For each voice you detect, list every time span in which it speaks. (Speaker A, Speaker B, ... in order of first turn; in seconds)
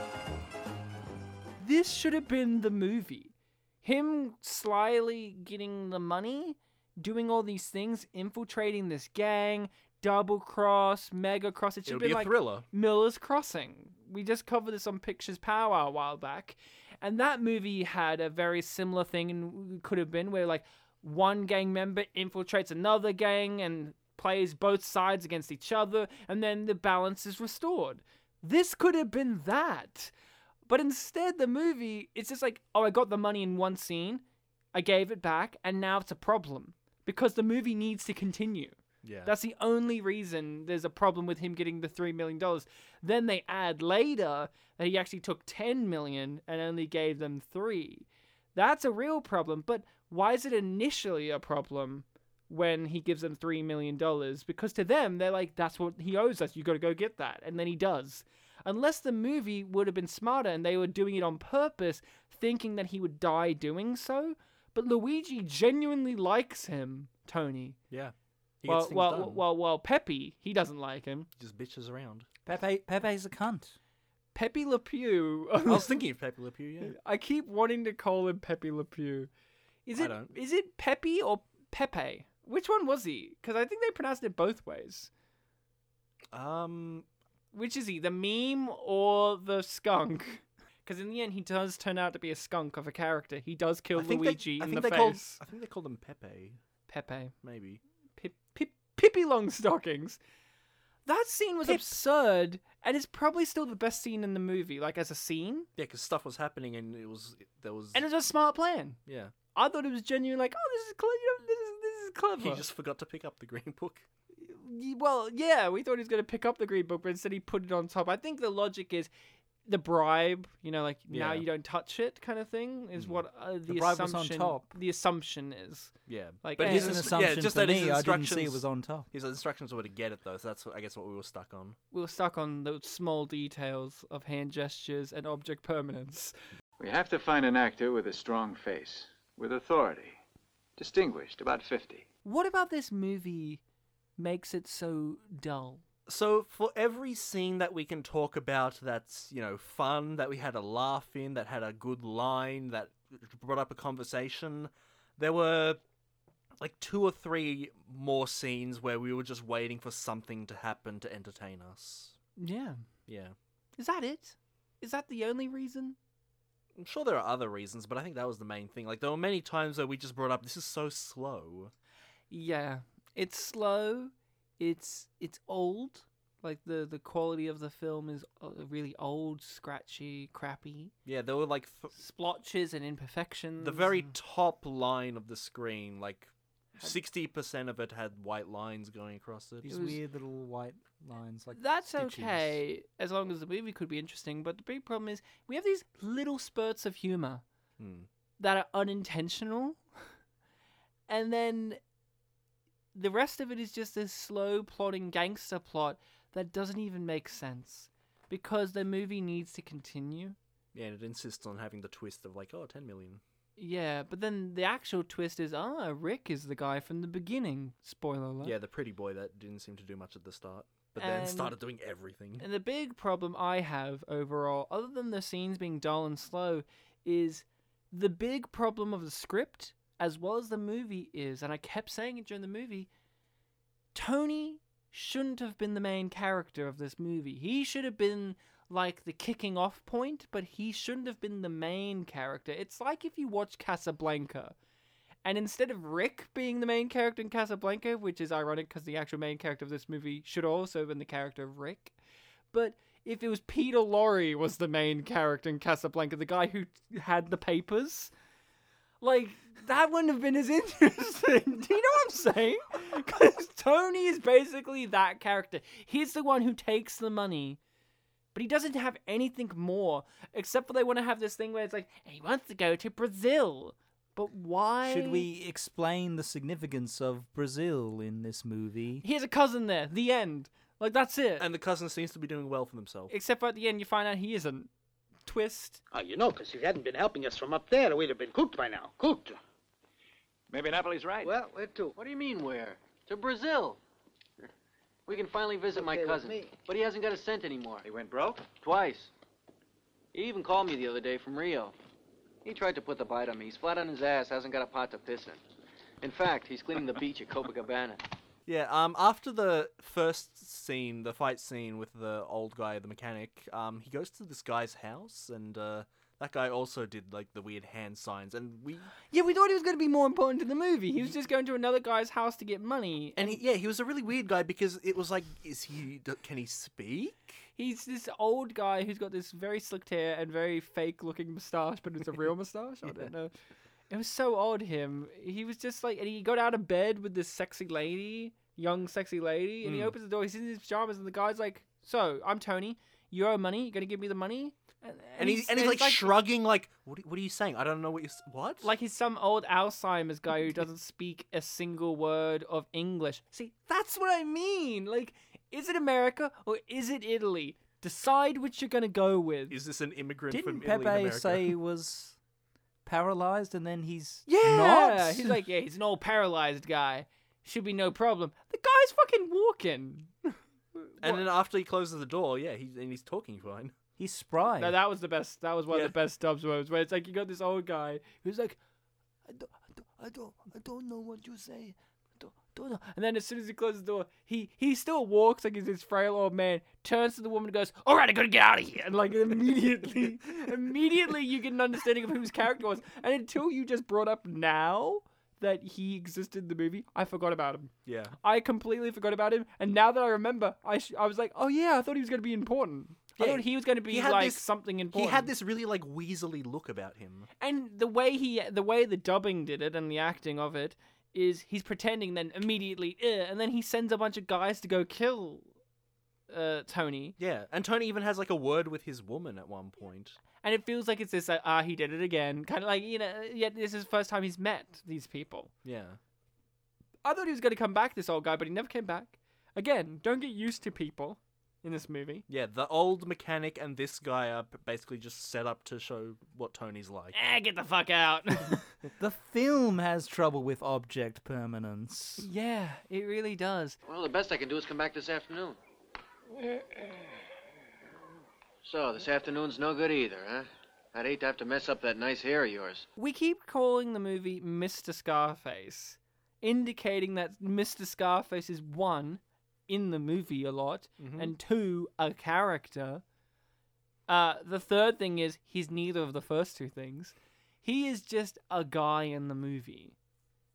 Speaker A: 1.6-30.1, 30.6-67.8, 68.7-71.3, 74.3-75.9, 76.8-79.3, 79.8-85.1, 87.5-95.4, 96.9-97.3, 98.2-100.2, 101.0-105.7, 107.9-109.0, 109.5-112.6, 114.4-119.1, 119.7-127.1, 131.9-136.3, 142.2-143.6, 144.2-145.8, 162.4-162.8, 163.8-166.0, 172.3-180.9, 181.9-184.1, 189.7-189.9, 191.5-197.4, 198.4-199.8, 201.1-201.8, 202.9-210.3, 213.6-218.5, 221.0-221.6, 222.4-232.9, 233.9-244.6, 245.2-251.9, 252.5-258.1, 259.0-267.6, 268.3-275.3, 279.0-281.5, 283.1-284.7, 285.2-285.8, 319.1-323.4, 327.6-333.3, 333.9-346.1, 348.6-359.6, 364.2-371.2, 374.6-378.6, 379.3-405.3, 407.4-415.5, 416.3-417.1, 420.4-425.5, 427.0-432.2, 437.1-438.6, 442.2-443.8, 453.0-463.0, 464.1-469.9
Speaker B: 11.8-12.7, 39.0-39.3, 67.9-69.4, 71.4-72.3, 75.7-76.9, 80.0-80.3, 86.3-87.0, 93.9-96.6, 97.4-97.8, 101.6-102.0, 105.8-108.0, 109.0-109.3, 112.4-114.1, 121.1-121.4, 123.0-123.2, 126.1-131.8, 146.1-155.8, 156.6-162.1, 163.1-163.3, 166.8-171.7, 181.0-181.9, 183.6-189.7, 197.8-198.1, 210.7-213.2, 218.4-222.5, 281.4-283.1, 308.5-318.9, 323.1-327.4, 339.6-339.9, 345.2-348.7, 359.5-361.5, 371.0-373.7, 397.8-398.1, 403.2-407.3, 417.2-420.2, 425.6-426.0, 432.3-437.1, 461.0-461.3
Speaker C: 72.5-73.8, 123.7-124.7, 126.6-129.1, 189.6-192.6, 274.8-279.0, 360.3-362.2, 362.8-365.4, 374.0-374.8, 439.0-442.3
Speaker D: 136.8-140.2, 140.8-142.1, 290.5-291.3, 297.8-298.5
Speaker E: 285.9-289.4, 291.2-291.9, 295.7-296.5
Speaker F: 291.9-293.8, 295.1-297.9, 298.4-299.1, 300.1-301.7, 302.4-305.4, 306.0-308.0, 443.9-445.6, 448.6-452.9